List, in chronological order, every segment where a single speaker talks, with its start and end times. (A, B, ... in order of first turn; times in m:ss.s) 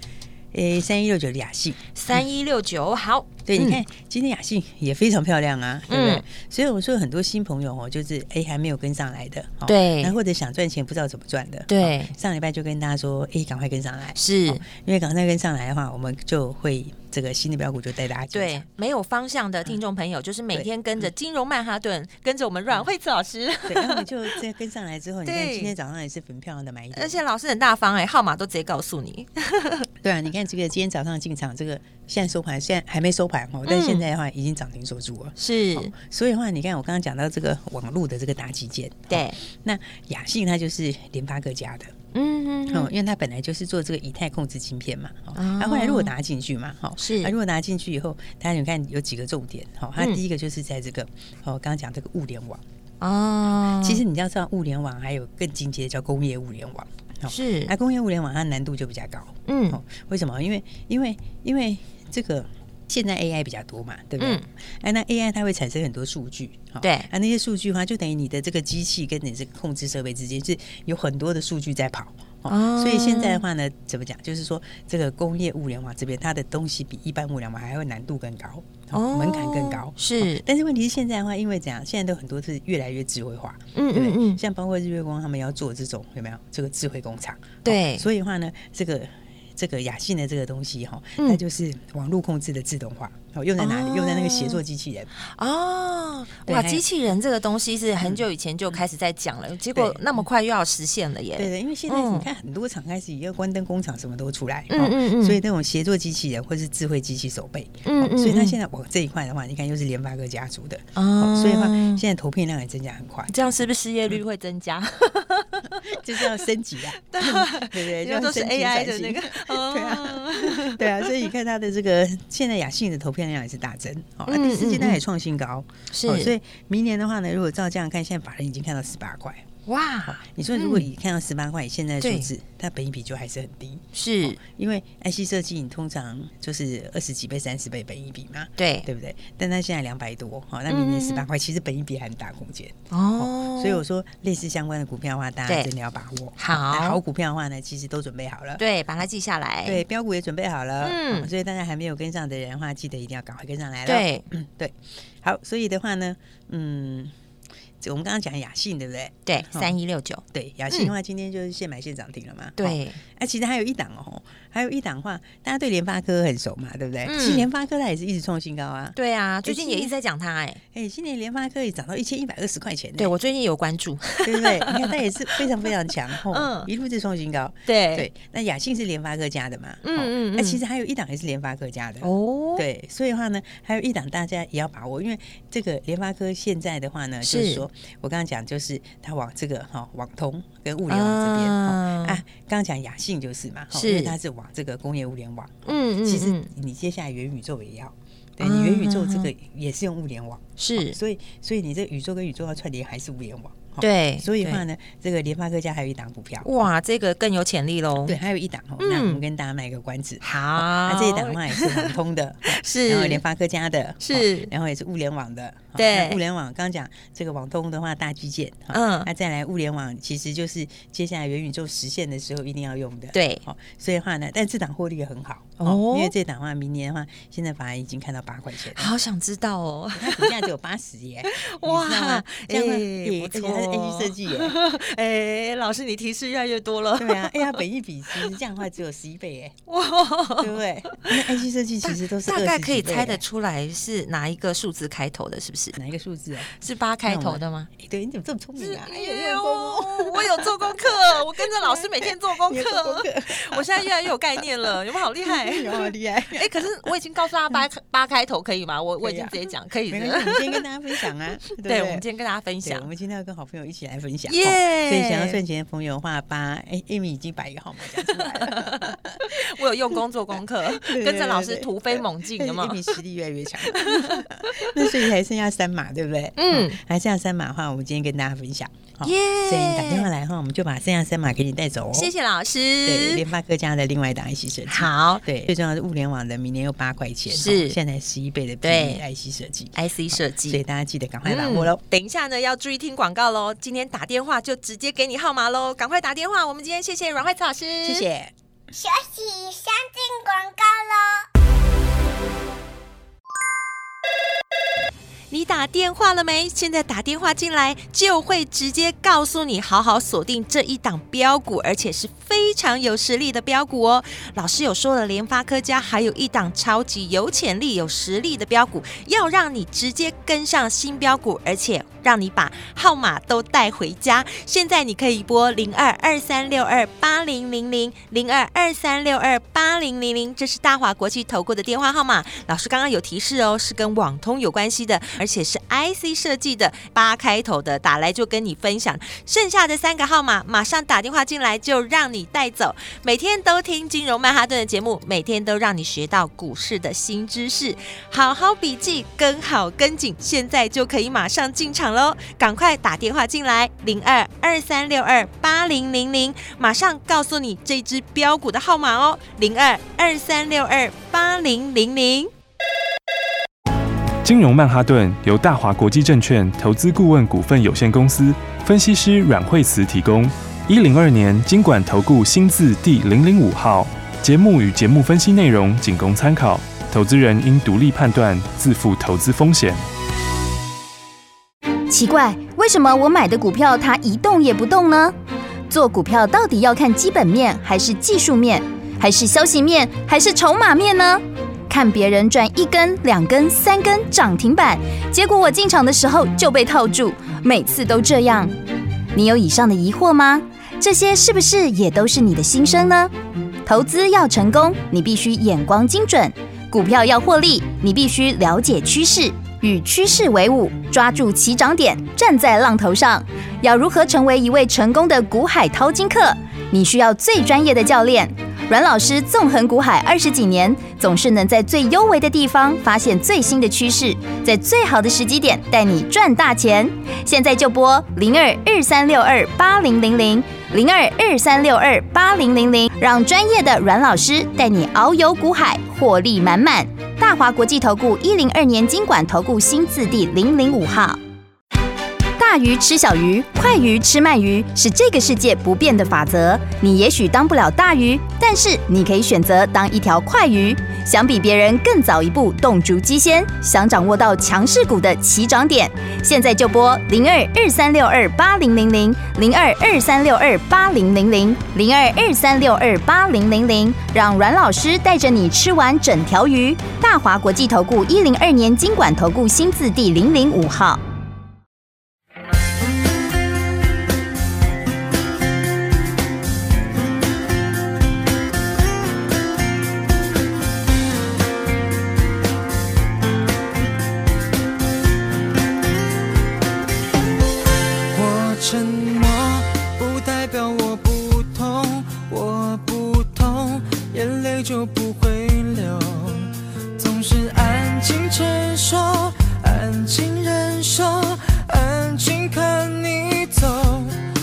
0:00.5-0:01.8 A
0:02.0-0:03.8 B
0:03.5-0:18.6 A
0:05.9-0:06.2 B
0:09.7-0:10.2 B
0:11.7-0:12.1 B
0:14.2-0:14.6 B
0:18.3-0:24.3 B
0:20.5-0:21.0 A
0:23.7-0:27.2 A
0:25.2-0:25.7 B
0:26.9-0:29.9 B
0:30.0-0:41.9 A
0:33.7-0:34.1 B
0:35.4-0:35.9 B
0:39.1-0:39.4 B
0:42.1-0:42.9 B
0:42.7-0:52.6 A
0:45.4-0:46.1 B
0:47.0-0:47.3 B
0:53.0-0:54.0 B
0:53.8-1:35.1 A
0:57.3-0:57.7 B
0:59.5-0:59.8 B
1:04.2-1:04.5 B
1:06.8-1:07.1 B
1:12.5-1:13.4 B
1:18.9-1:20.4 B
1:23.8-1:24.4 B
1:27.6-1:28.1 B
1:33.6-1:34.6 B
1:35.2-1:42.3 B
1:36.5-1:36.8 A
1:39.7-1:40.2 A
1:41.4-1:53.3 A
1:44.7-1:45.4 B
1:47.8-1:48.6 B
1:51.0-1:52.0 B
1:53.3-1:56.4 B
1:55.9-2:09.5 A
1:57.0-2:01.3 B
2:04.3-2:05.0 B
2:05.9-2:06.3 B
2:09.7-2:10.9 B
2:10.1-2:28.6 A
2:12.0-2:12.3 B
2:14.0-2:14.4 B
2:18.6-2:18.9 B
2:20.7-2:21.3 B
2:22.9-2:23.8 B
2:26.4-2:27.0 B
2:28.6-2:29.8 B
2:29.6-2:37.1 A
2:30.8-2:31.3 B
2:33.8-2:34.2 B
2:37.8-2:39.8 A
2:39.3-2:40.9 B
2:40.3-2:49.9 A
2:42.6-2:43.0 B
2:47.0-2:47.5 B
2:49.0-2:50.6 B
2:50.7-2:53.1 A
2:53.0-2:55.5 B
2:54.2-3:26.6 A
2:56.2-2:56.7 B
2:57.7-2:58.1 B
2:59.8-3:00.6 B
3:02.0-3:02.6 B
3:07.2-3:07.6 B
3:10.9-3:12.2 B
3:13.7-3:14.2 B
3:15.7-3:16.5 B
3:18.4-3:19.3 B
3:20.6-3:21.0 B
3:23.8-3:24.6 B
3:26.4-3:28.2 B
3:28.0-3:48.9 A
3:28.8-3:29.2 B
3:30.2-3:31.9 B
3:32.5-3:33.2 B
3:34.0-3:34.5 B
3:35.8-3:36.2 B
3:38.7-3:39.1 B
3:43.1-3:43.4 B
3:45.6-3:46.1 B
3:48.8-3:50.4 B
3:49.9-3:54.6 A
3:51.3-3:57.6 B
3:57.0-3:59.6 A
3:59.7-4:01.3 B
4:00.4-4:03.2 A
4:01.8-4:05.8 B
4:05.8-4:16.9 A
4:06.5-4:07.7 B
4:08.6-4:20.6 B
4:19.0-4:22.0 A
4:21.5-4:22.9 B
4:22.6-4:29.6 A
4:24.3-4:25.4 B
4:28.0-4:33.0 B
4:30.3-4:42.1 A
4:33.7-4:35.0 B
4:36.4-4:36.8 B
4:39.0-4:40.1 B
4:41.9-4:43.2 B
4:42.8-4:51.8 A
4:44.7-4:45.2 B
4:47.3-4:47.8 B
4:48.6-4:49.0 B
4:49.8-4:50.6 B
4:51.2-4:58.1 B
4:57.8-4:58.3 A
4:58.7-5:01.3 C
5:05.3-6:02.3 B
6:04.2-6:19.8 D
6:21.9-6:25.2 E
6:25.7-6:38.5 E
6:39.1-6:43.1 E
6:43.7-7:21.2 E
7:22.4-7:51.0 E
8:08.1-8:24.2 F